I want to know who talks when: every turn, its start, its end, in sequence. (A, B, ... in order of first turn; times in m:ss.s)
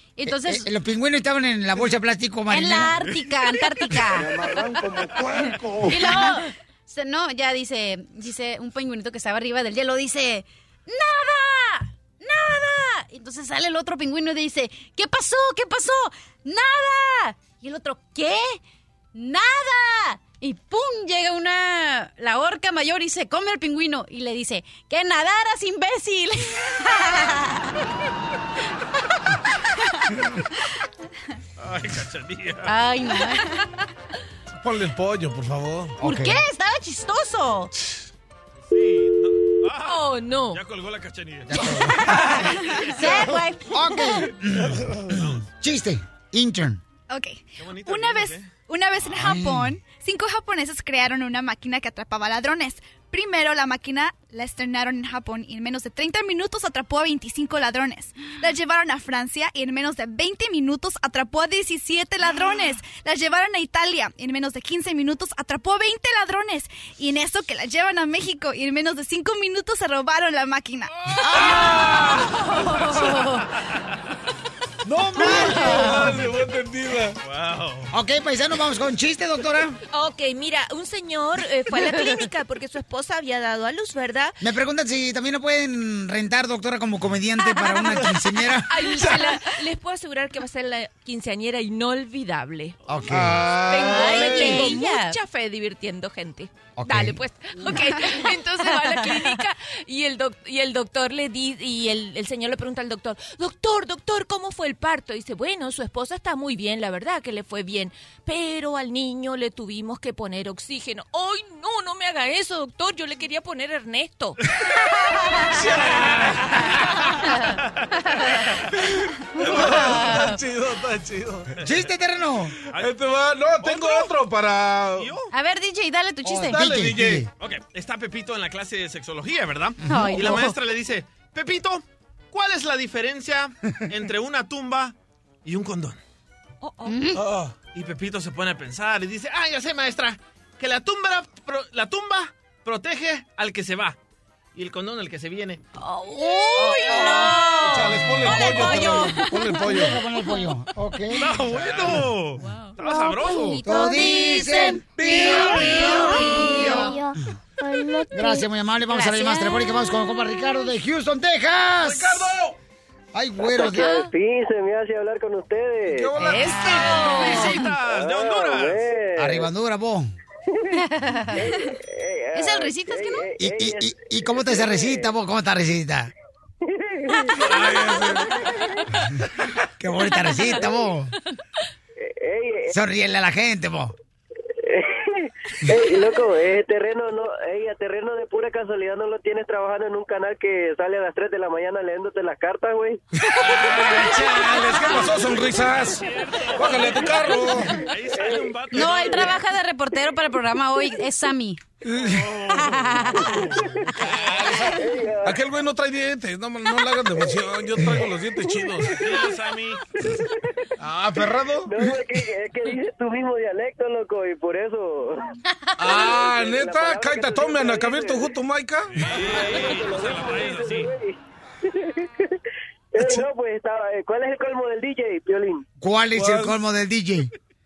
0:00.2-0:00.7 A
0:00.2-0:03.0 B
0:02.5-0:04.6 A
0:05.3-0:18.6 A
0:19.1-0:27.6 A
0:31.6-0:32.8 C
0:32.6-0:33.7 A
0:34.6-0:36.0 D
0:36.0-0:36.4 B
0:36.0-0:37.7 A
0:38.7-0:41.6 C
0:39.8-0:40.6 E
0:41.5-0:42.0 B
0:41.8-0:44.3 A
0:42.7-0:43.1 C
0:43.7-0:46.8 B
0:45.2-0:45.4 C
0:47.1-1:10.9 F
0:47.6-0:48.5 C
0:49.1-0:49.7 B
1:10.9-1:11.6 C
1:11.2-1:13.4 A
1:11.3-1:12.2 D
1:14.8-1:16.1 B
1:15.2-1:17.2 D
1:15.3-1:16.2 A
1:17.2-1:17.9 C
1:17.9-1:19.8 B
1:19.9-1:24.4 E
1:24.4-1:29.1 B
1:28.7-1:32.8 E
1:32.9-1:34.7 B
1:33.1-1:34.7 D
1:33.7-1:54.4 E
1:33.7-1:35.2 A
1:36.8-1:37.2 B
1:37.7-1:39.4 A
1:55.5-1:56.9 D
1:58.8-2:01.5 D
1:59.4-2:00.4 A
2:01.6-2:02.5 B
2:02.7-2:05.1 D
2:03.6-2:04.1 C
2:05.0-2:05.3 C
2:05.3-2:06.7 A
2:06.2-2:07.3 B
2:06.5-2:07.2 D
2:07.4-2:16.0 C
2:09.8-2:10.6 A
2:09.9-2:10.1 B
2:16.6-2:17.0 E
2:16.8-2:17.2 A
2:17.2-2:17.5 D
2:17.7-2:24.0 C
2:24.5-2:25.6 C
2:26.0-2:30.4 A
2:27.6-2:30.0 D
2:29.7-2:31.3 B
2:31.1-2:33.7 C
2:31.5-2:32.0 D
2:33.5-2:36.9 A
2:33.6-2:35.6 B
2:33.9-2:34.7 G
2:34.9-2:36.7 D
2:36.2-2:38.4 G
2:38.1-2:42.3 B
2:38.9-2:39.7 A
2:41.8-2:42.5 D
2:43.1-2:44.0 B
2:43.4-2:46.1 H
2:45.9-2:47.3 D
2:46.2-2:47.7 A
2:46.6-2:48.9 C
2:47.8-2:49.5 H
2:49.2-2:50.1 B
2:50.8-2:51.7 A
2:51.3-2:55.1 H
2:52.3-2:53.3 A
2:53.4-2:56.1 B
2:56.6-2:58.3 H
2:57.4-2:58.3 D
2:59.8-3:01.1 B
3:02.0-3:02.8 H
3:02.7-3:03.9 B
3:04.6-3:13.0 H
3:13.3-3:16.0 D
3:15.8-3:19.4 C
3:16.5-3:17.7 D
3:18.1-3:19.2 H
3:18.7-3:21.6 A
3:21.9-3:24.3 C
3:22.4-3:23.5 A
3:24.0-3:29.0 D
3:24.7-3:25.4 H
3:28.4-3:28.8 H
3:28.9-3:29.8 C
3:30.8-3:32.0 D
3:31.6-3:35.2 H
3:35.8-3:39.1 D
3:36.0-3:38.3 H
3:38.9-3:40.9 C
3:39.2-3:42.3 H
3:42.9-3:45.6 H
3:45.8-3:47.3 B
3:46.1-3:46.5 D